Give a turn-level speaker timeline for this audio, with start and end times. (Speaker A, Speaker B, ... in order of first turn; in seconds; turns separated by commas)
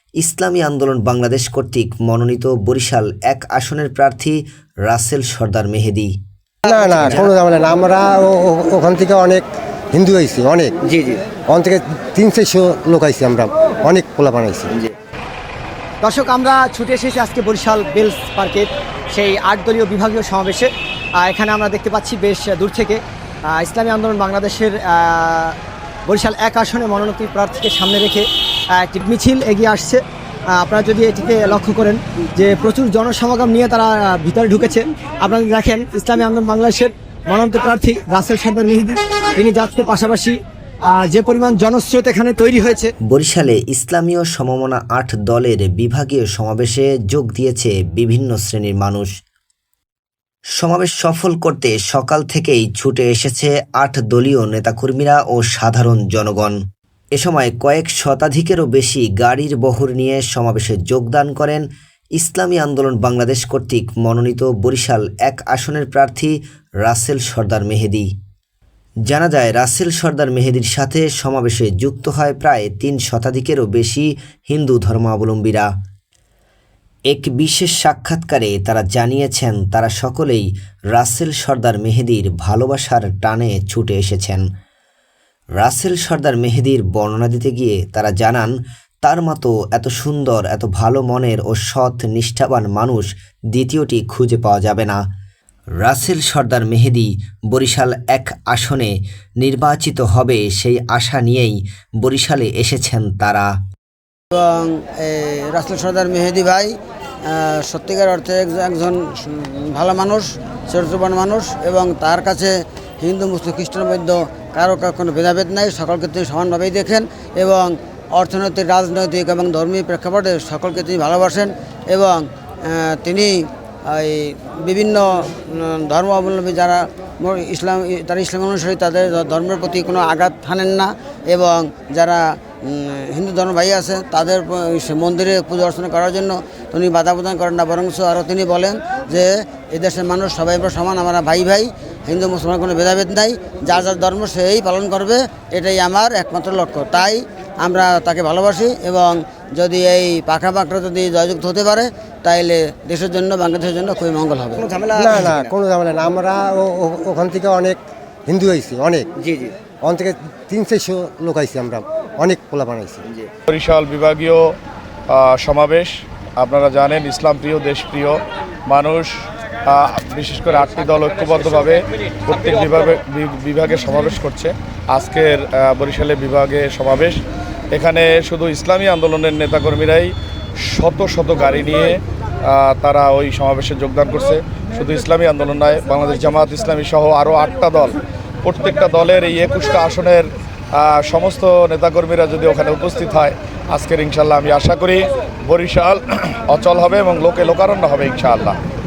Speaker A: 0.2-6.1, Speaker B: 6.7-7.3, Speaker C: 6.7-10.7, Speaker B: 10.8-11.2, Speaker C: 11.5-14.7, Speaker B: 16.0-42.9, Speaker A: 43.1-49.1, Speaker A: 50.6-56.6, Speaker A: 57.1-61.6, Speaker A: 62.2-68.1, Speaker A: 69.1-75.7, Speaker A: 77.1-84.4, Speaker A: 85.6-95.0, Speaker A: 95.8-103.5, Speaker D: 104.3-106.8, Speaker D: 107.3-154.6, Speaker B: 154.5-155.5, Speaker C: 154.9-159.1, Speaker B: 159.2-159.5, Speaker C: 159.8-163.0, Speaker E: 163.5-164.5, Speaker E: 165.1-169.1, Speaker E: 169.7-177.2, Speaker E: 177.7-180.1, Speaker E: 180.7-198.6